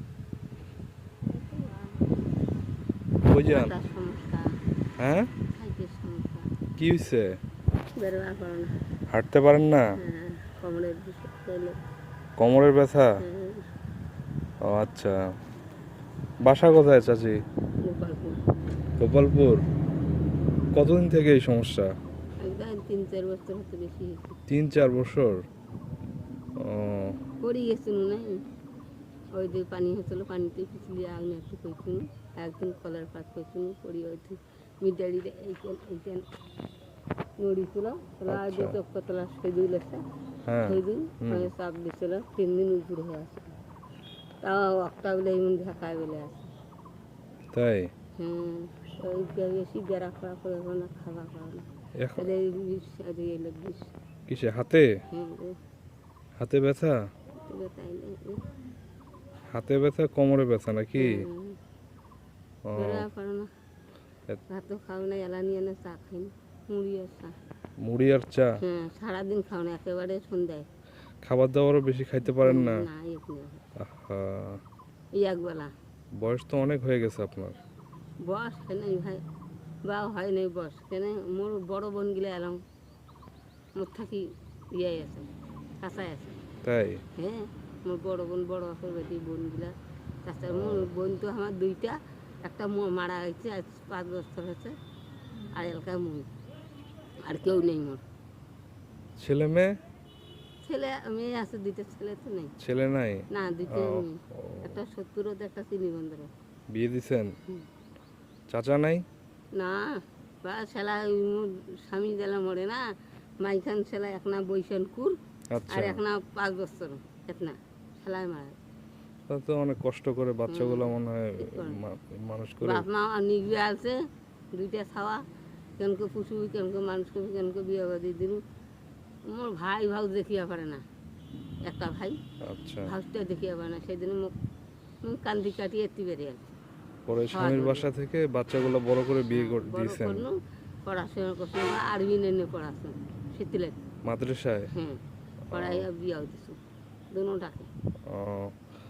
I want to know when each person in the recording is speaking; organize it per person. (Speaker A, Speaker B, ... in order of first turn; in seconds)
Speaker A: 1.3-2.3, 3.5-4.5, 5.5-6.5, 7.9-8.7, 9.9-11.8, 13.2-13.7, 17.8-18.4, 22.4-24.4, 27.4-28.4, 29.3-36.2, 37.4-40.0, 40.6-43.5, 44.4-46.5, 48.2-53.9, 55.1-55.6, 57.4-58.4, 61.0-61.6, 62.8-63.5, 64.5-67.3, 68.6-70.7, 72.3-73.6, 75.1-75.7, 78.2-79.2, 79.8-82.6, 83.7-85.3, 85.8-86.4, 87.2-89.7, 90.2-94.7, 95.5-96.3, 97.2-98.0, 100.6-102.5, 103.3-106.3, 109.5-112.8, 113.4-115.2, 115.7-118.5, 120.5-121.8, 122.6-125.2, 125.8-128.4, 129.3-130.8, 131.6-132.2, 132.8-134.3, 135.0-136.6, 137.3-137.9, 139.3-143.8, 144.7-145.0, 145.5-146.6, 147.1-147.7
Speaker B: 3.2-3.7, 5.0-5.3, 6.8-7.4, 9.1-9.9, 12.4-13.1, 14.6-15.1, 16.4-17.4, 19.0-19.6, 20.7-21.9, 24.5-25.4, 26.6-27.2, 38.3-38.8, 40.5-41.5, 47.5-47.9, 52.0-52.3, 54.3-54.9, 56.4-57.0, 59.5-61.2, 62.7-63.0, 67.8-68.6, 71.2-72.8, 73.8-74.6, 76.2-77.6, 86.6-87.0, 90.5-90.9, 99.2-99.7, 102.6-104.8, 106.7-107.3, 108.5-109.0, 115.5-116.0, 119.3-122.8, 132.4-132.9, 137.1-140.3, 144.0-144.7, 145.5-145.9, 148.1-148.6